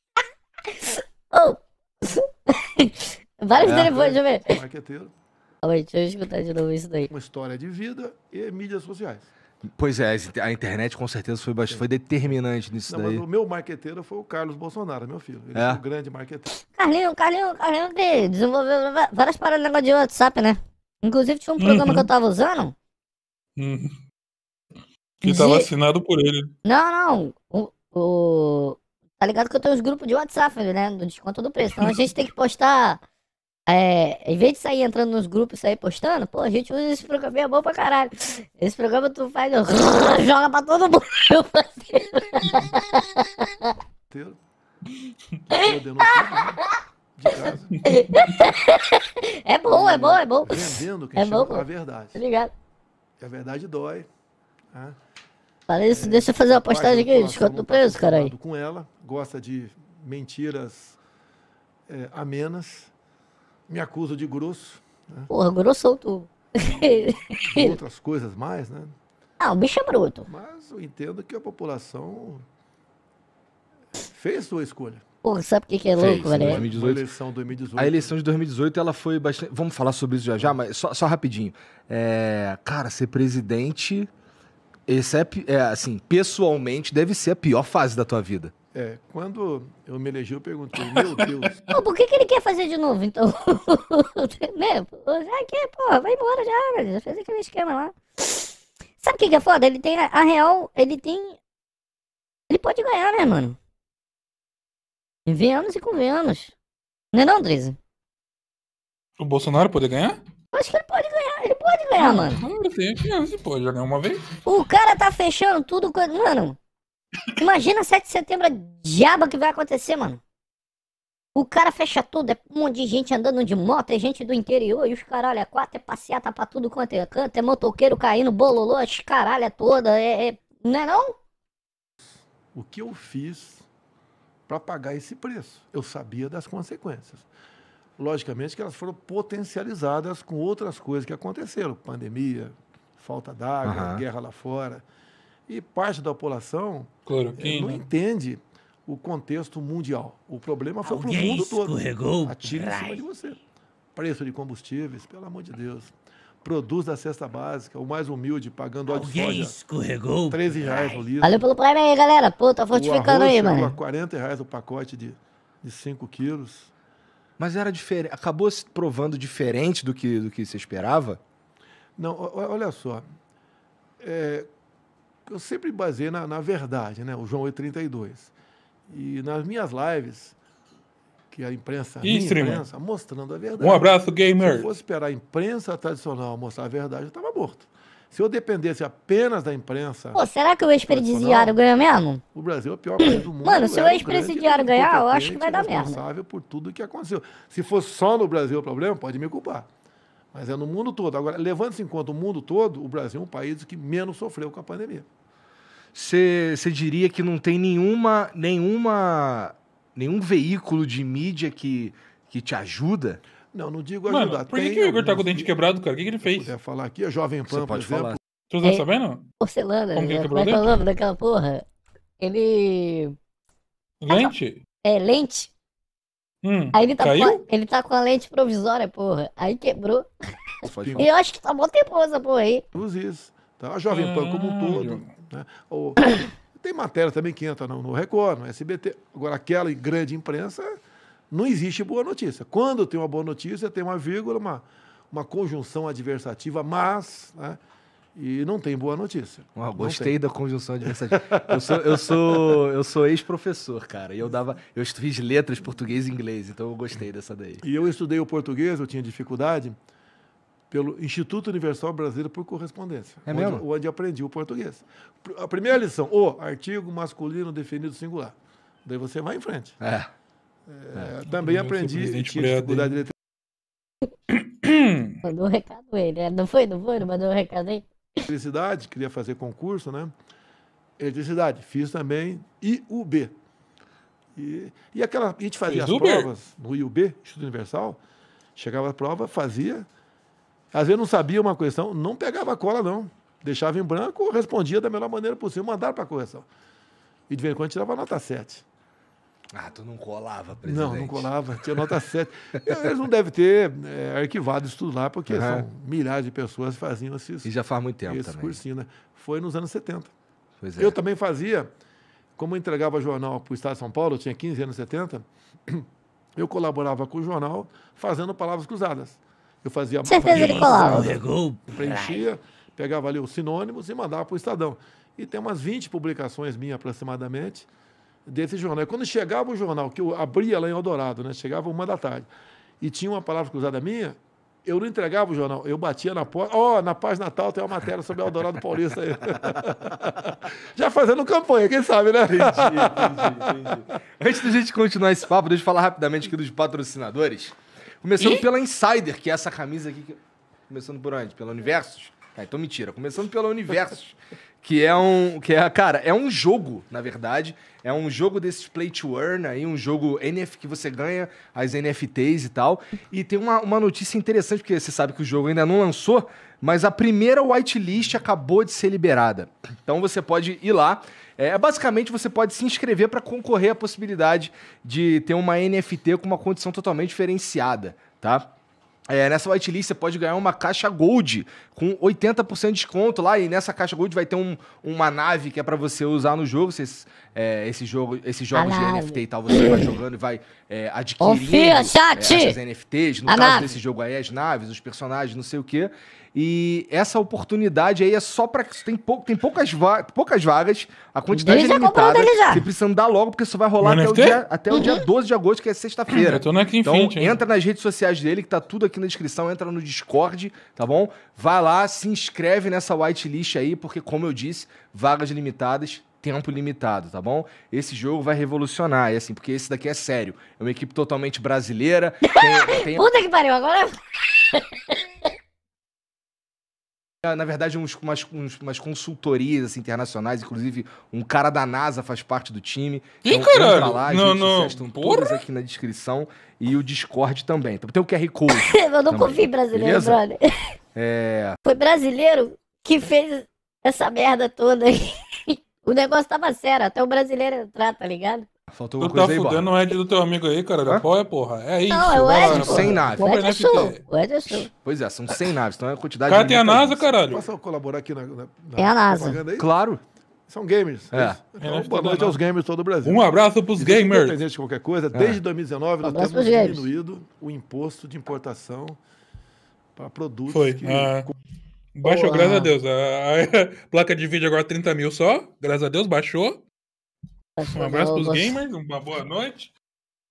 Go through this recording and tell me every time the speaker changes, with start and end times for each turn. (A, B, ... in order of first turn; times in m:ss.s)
0:00.8-0:04.4 A
0:03.5-0:05.1 B
0:03.6-0:03.9 C
0:05.6-0:07.1 A
0:07.1-0:09.3 B
0:09.8-0:13.2 C
0:12.9-0:16.5 B
0:15.5-0:15.8 C
0:16.6-0:22.7 A
0:21.6-0:22.1 D
0:23.6-0:24.0 D
0:25.2-0:26.5 D
0:25.2-0:25.7 A
0:26.6-0:33.0 A
0:33.7-0:43.7 A
0:44.1-0:44.4 B
0:45.5-0:46.6 B
0:45.5-0:46.7 A
0:47.2-0:47.8 B
0:47.4-0:52.5 A
0:49.7-0:52.2 B
0:53.2-0:54.1 B
0:55.7-0:58.3 A
0:55.9-1:01.0 B
1:01.9-1:02.9 B
1:03.7-1:05.3 B
1:05.3-1:07.8 A
1:06.8-1:08.9 B
1:09.4-1:10.3 A
1:10.3-1:12.4 B
1:14.0-1:15.0 B
1:15.2-1:16.6 A
1:16.0-1:17.0 C
1:16.2-1:18.2 B
1:17.8-1:24.1 C
1:24.9-1:28.5 C
1:28.7-1:31.6 B
1:30.8-1:31.6 D
1:31.7-1:41.4 A
1:42.5-1:43.6 A
1:45.2-1:46.5 A
1:47.1-1:47.8 A
1:49.2-1:50.2 D
1:50.5-1:52.4 A
1:52.0-1:54.3 D
1:54.4-1:56.6 A
1:57.4-2:00.2 A
2:01.3-2:11.1 A
2:12.5-2:13.6 B
2:14.5-2:17.2 B
2:18.0-2:24.8 B
2:23.6-2:24.0 C
2:25.5-2:33.4 B
2:27.1-2:27.8 D
2:30.8-2:33.0 E
2:34.0-2:39.6 B
2:38.9-2:41.0 E
2:40.3-2:41.5 B
2:41.2-2:43.8 A
2:42.7-2:46.7 B
2:47.4-2:51.2 C
2:52.0-2:53.0 B
2:54.0-2:54.5 B
2:55.3-2:58.3 B
2:58.9-3:00.3 B
3:01.3-3:10.2 B
3:02.0-3:02.6 D
3:03.6-3:04.7 D
3:10.1-3:12.2 A
3:10.8-3:11.6 B
3:12.3-3:19.7 B
3:13.0-3:16.0 A
3:20.3-3:25.0 B
3:25.9-3:33.2 C
3:33.5-3:35.5 B
3:34.1-3:36.5 D
3:36.2-3:38.2 B
3:37.5-3:38.2 C
3:38.5-3:39.2 D
3:39.4-3:41.6 A
3:39.9-3:40.7 D
3:42.2-3:43.1 A
3:44.0-3:44.6 D
3:44.8-3:45.5 A
3:46.4-3:47.4 D
3:46.7-3:50.1 A
3:50.6-3:51.1 C
3:50.8-3:51.1 B
3:51.0-3:52.6 A
3:52.7-4:00.7 B
3:53.9-3:55.1 D
4:01.3-4:07.6 B
4:08.2-4:10.1 B
4:09.5-4:17.6 C
4:10.8-4:11.8 B
4:17.6-4:19.8 B
4:20.7-4:29.8 B
4:23.2-4:23.6 C
4:29.8-4:30.1 C
4:30.7-4:33.1 B
4:31.2-4:33.0 D
4:34.3-4:35.1 D
4:35.2-4:37.8 A
4:38.3-4:40.1 B
4:41.0-4:43.3 B
4:44.4-4:48.0 B
4:45.7-4:46.3 D
4:48.6-4:49.9 B
4:50.7-4:56.5 B
4:57.3-4:58.6 B
4:59.5-5:01.9 C
5:00.6-5:07.5 B
5:05.3-5:05.6 C
5:07.4-5:08.6 C
5:08.0-5:10.1 B
5:10.6-5:10.9 C
5:10.8-5:11.7 B
5:12.4-5:15.8 B
5:16.4-5:21.2 B
5:20.0-5:21.2 A
5:20.4-5:22.2 E
5:21.7-5:27.7 B
5:28.3-5:32.3 B
5:32.8-5:43.7 B
5:42.3-6:18.5 C
5:48.2-5:48.4 D
6:19.1-7:03.1 C
6:28.5-6:29.9 A
6:31.2-6:32.6 A
6:33.3-6:33.8 A
6:41.3-6:42.7 A
6:43.8-6:44.4 D
6:44.7-6:45.0 A
6:46.1-6:47.4 D
7:02.3-7:04.9 A
7:07.2-7:20.2 C
7:13.2-7:15.4 D
7:18.5-7:20.4 A
7:20.9-7:21.6 C
7:21.6-7:28.5 A
7:28.7-7:29.7 C
7:29.0-7:34.0 D
7:31.9-7:34.7 A
7:32.4-7:33.3 C
7:34.7-7:37.1 C
7:36.2-7:37.4 D
7:37.3-7:39.7 B
7:38.8-7:39.4 A
7:39.6-7:40.0 C
7:40.5-7:43.2 B
7:41.1-7:41.4 C
7:41.6-7:42.4 D
7:43.0-7:44.4 D
7:43.8-7:49.0 B
7:45.1-7:45.4 C
7:46.0-7:46.9 A
7:50.0-7:51.3 B
7:50.5-7:51.3 D
7:51.9-7:56.6 D
7:52.0-7:52.7 A
7:57.6-7:58.6 A
7:57.6-7:59.7 D